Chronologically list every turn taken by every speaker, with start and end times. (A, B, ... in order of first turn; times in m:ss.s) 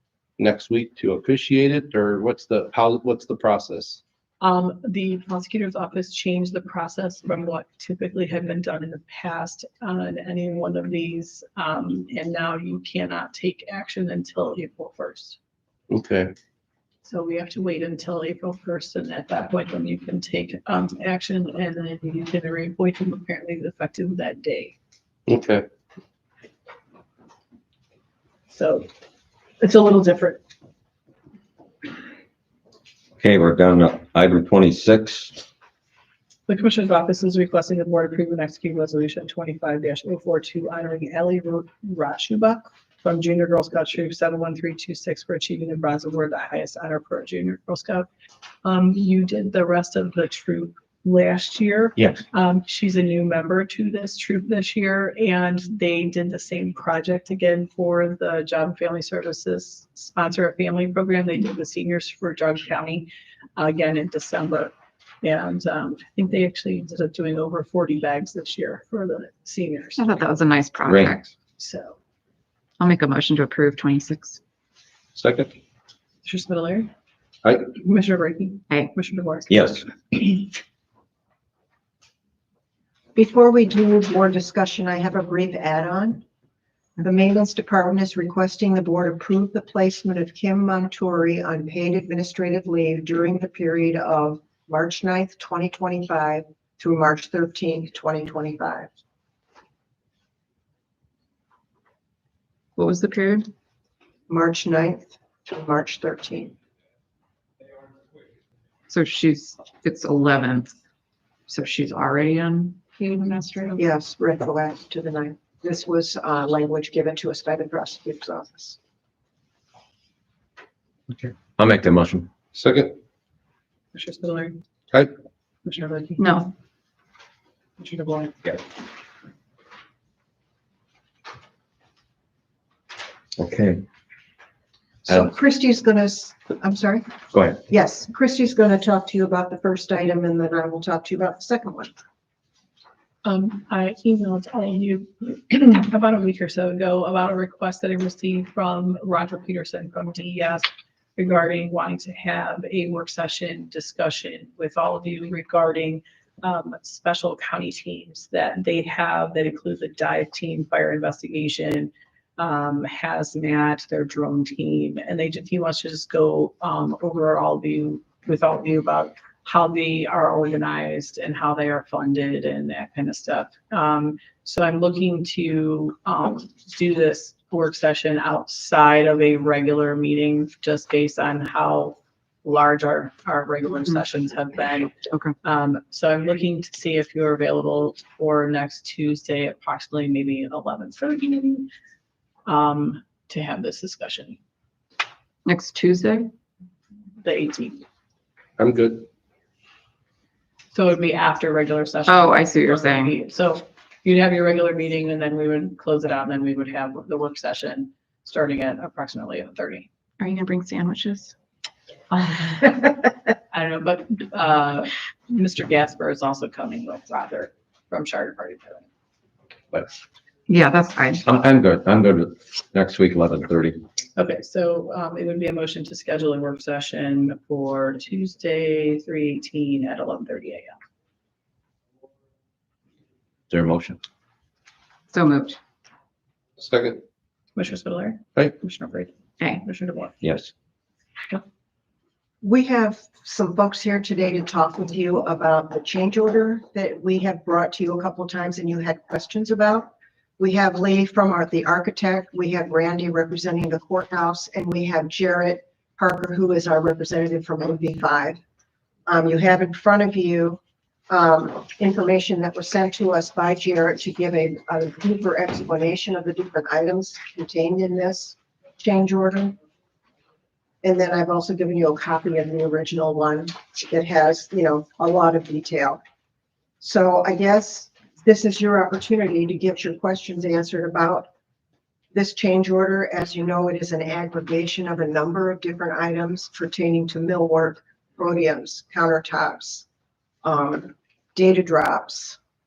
0:00.4-0:04.0 A
0:04.4-0:15.4 B
0:15.9-0:16.3 A
0:17.0-0:24.8 B
0:25.3-0:25.6 A
0:28.5-0:28.9 B
0:29.6-0:30.4 B
0:33.2-0:35.4 C
0:36.5-0:48.1 B
0:48.6-1:10.1 B
1:10.0-1:11.3 D
1:10.8-1:11.2 C
1:11.6-1:12.0 B
1:12.8-1:14.4 D
1:15.2-1:15.5 A
1:16.2-1:16.9 B
1:17.7-1:20.4 B
1:19.5-1:19.8 C
1:23.1-1:26.2 E
1:27.0-1:38.9 E
1:42.8-1:43.5 D
1:44.3-1:46.5 E
1:48.9-1:50.7 D
1:51.5-1:53.8 D
1:53.8-1:58.8 E
2:01.1-2:02.3 C
2:02.5-2:03.0 A
2:03.9-2:04.6 B
2:05.6-2:06.4 B
2:06.2-2:06.5 D
2:07.8-2:08.3 B
2:13.4-2:13.8 C
2:15.1-2:17.0 E
2:17.3-2:17.6 C
2:17.7-2:21.9 E
2:23.2-3:11.7 B
3:05.1-3:05.3 D
3:12.4-3:14.4 B
3:15.4-3:16.3 D
3:17.2-3:17.8 B
3:18.6-3:19.1 A
3:20.7-3:29.9 B
3:22.1-3:23.1 D
3:30.2-3:31.3 D
3:32.1-3:32.9 B
3:33.5-3:38.8 B
3:40.5-3:41.2 D
3:41.2-3:43.8 C
3:44.2-3:50.7 B
3:53.5-3:54.0 C
3:55.1-3:55.6 D
3:56.6-3:57.0 A
3:57.6-4:00.1 B
4:00.2-4:00.5 C
4:02.4-4:18.4 E
4:19.1-4:29.6 E
4:30.8-4:36.0 E
4:36.8-4:41.3 E
4:42.1-4:49.8 E
4:50.4-4:52.4 E